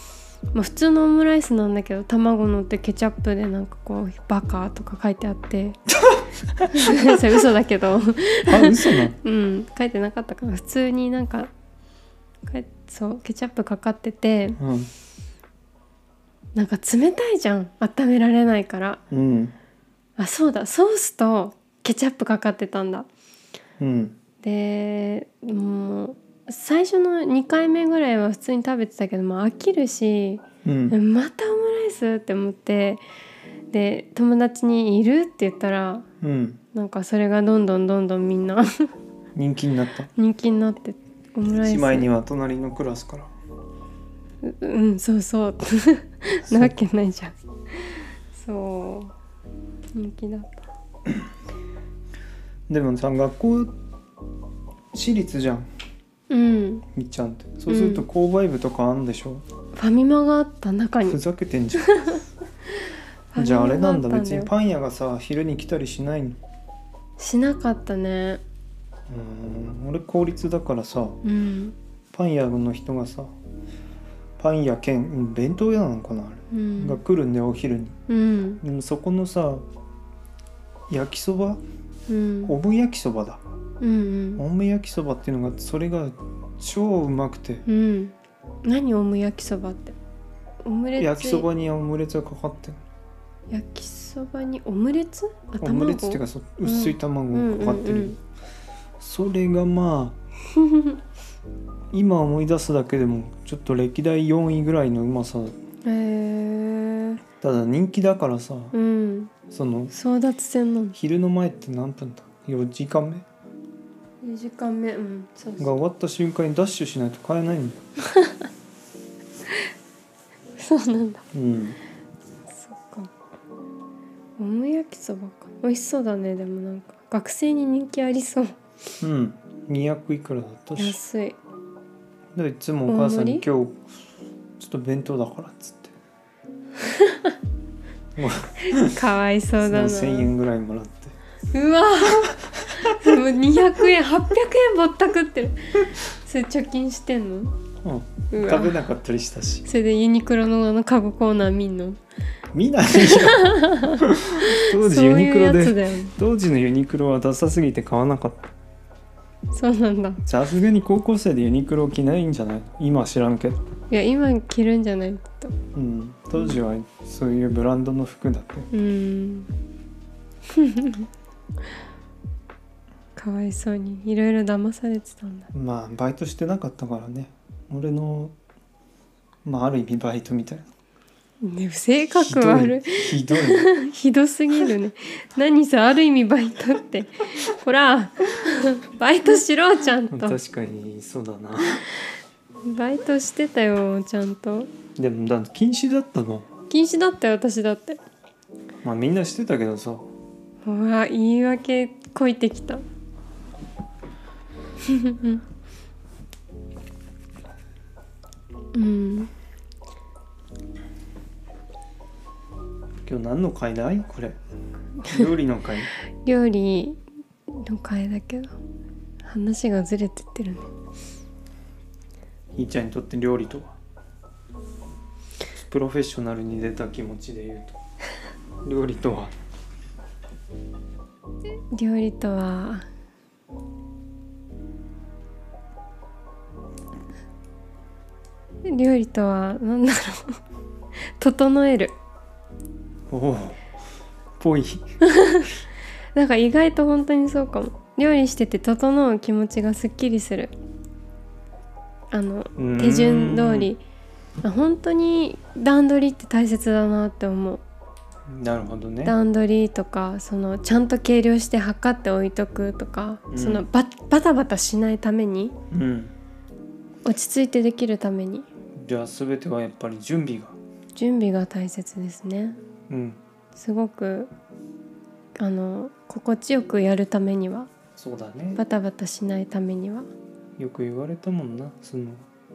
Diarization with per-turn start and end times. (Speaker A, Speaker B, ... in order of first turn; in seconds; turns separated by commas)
Speaker A: 0.5-5.8, Speaker B: 6.0-7.3, Speaker A: 6.7-11.5, Speaker B: 8.4-9.2, Speaker A: 12.5-14.6, Speaker B: 14.6-14.9, Speaker A: 16.6-19.0, Speaker B: 19.1-19.6, Speaker A: 20.2-23.1, Speaker B: 23.8-24.1, Speaker A: 24.4-33.0, Speaker B: 30.6-31.0, Speaker A: 33.7-36.1, Speaker B: 36.2-36.6, Speaker A: 36.7-38.9, Speaker B: 39.4-40.1, Speaker A: 40.2-42.1, Speaker B: 41.6-43.3, Speaker A: 44.4-49.1, Speaker B: 46.5-46.8, Speaker A: 49.9-50.6, Speaker B: 52.7-53.8, Speaker B: 54.9-55.7, Speaker A: 56.3-56.9, Speaker B: 56.9-59.5, Speaker A: 57.7-58.1, Speaker A: 59.8-61.2, Speaker B: 61.1-62.2, Speaker A: 61.8-62.8, Speaker A: 63.3-64.5, Speaker B: 63.4-66.4, Speaker A: 67.2-68.4, Speaker B: 69.1-71.2, Speaker A: 71.2-71.8, Speaker B: 72.1-73.3, Speaker B: 74.4-78.0, Speaker A: 76.5-77.0, Speaker A: 78.1-78.6, Speaker B: 78.6-79.6, Speaker B: 80.9-81.6, Speaker A: 82.1-82.5, Speaker B: 82.5-83.4, Speaker A: 83.8-84.4, Speaker B: 84.4-87.7, Speaker A: 87.7-90.0, Speaker A: 90.6-91.5, Speaker B: 91.0-92.8, Speaker A: 93.5-98.2, Speaker B: 95.6-98.2, Speaker B: 99.0-100.2, Speaker A: 100.5-101.0, Speaker B: 101.9-105.5, Speaker A: 105.8-107.2, Speaker B: 107.4-108.7, Speaker A: 108.7-109.3, Speaker B: 109.5-109.9, Speaker A: 109.9-111.0, Speaker B: 110.9-113.2, Speaker A: 114.2-115.7, Speaker B: 115.6-117.8, Speaker A: 118.0-118.5, Speaker A: 120.6-121.2, Speaker B: 121.3-121.8, Speaker A: 122.5-123.1, Speaker A: 124.4-128.5, Speaker B: 129.0-131.0, Speaker A: 130.8-131.4, Speaker B: 132.3-133.9, Speaker A: 132.9-133.4, Speaker B: 134.6-135.9, Speaker A: 136.8-137.4, Speaker B: 138.2-139.0, Speaker A: 138.6-140.3, Speaker B: 139.6-141.2, Speaker A: 141.5-147.6, Speaker B: 142.1-143.2, Speaker B: 147.8-149.7, Speaker A: 148.3-148.8, Speaker A: 149.7-152.0, Speaker B: 152.5-158.5, Speaker A: 152.9-156.1, Speaker A: 159.5-160.2, Speaker B: 160.2-163.6, Speaker A: 163.9-165.6, Speaker B: 165.7-168.7, Speaker A: 168.7-169.5, Speaker A: 170.5-171.1, Speaker A: 173.2-175.5, Speaker B: 175.5-178.3, Speaker B: 179.4-180.7, Speaker A: 181.4-190.4, Speaker B: 182.1-183.7, Speaker B: 190.1-191.9, Speaker A: 192.7-194.7, Speaker B: 195.0-196.5, Speaker A: 196.7-198.0, Speaker B: 198.8-200.1, Speaker A: 200.7-202.8, Speaker A: 204.8-205.4, Speaker A: 208.7-209.3, Speaker B: 213.1-214.4, Speaker B: 215.1-215.9, Speaker A: 216.2-218.6, Speaker A: 219.2-220.7, Speaker B: 222.6-223.8, Speaker B: 225.6-227.8, Speaker B: 228.6-229.3, Speaker A: 231.7-232.9, Speaker A: 238.7-240.4, Speaker A: 241.2-241.9, Speaker B: 243.1-243.6, Speaker B: 244.4-244.9, Speaker A: 245.0-245.6, Speaker A: 246.2-250.5, Speaker A: 252.1-253.8, Speaker B: 252.6-253.7, Speaker A: 254.4-257.6, Speaker B: 258.3-259.2, Speaker A: 259.0-265.6, Speaker B: 263.3-263.6, Speaker B: 265.7-266.1, Speaker A: 267.1-268.5, Speaker B: 268.8-270.6, Speaker A: 270.9-272.6, Speaker B: 272.9-273.2, Speaker A: 273.6-274.3, Speaker A: 275.4-277.7, Speaker B: 278.0-278.6, Speaker A: 278.6-280.1, Speaker B: 280.6-282.2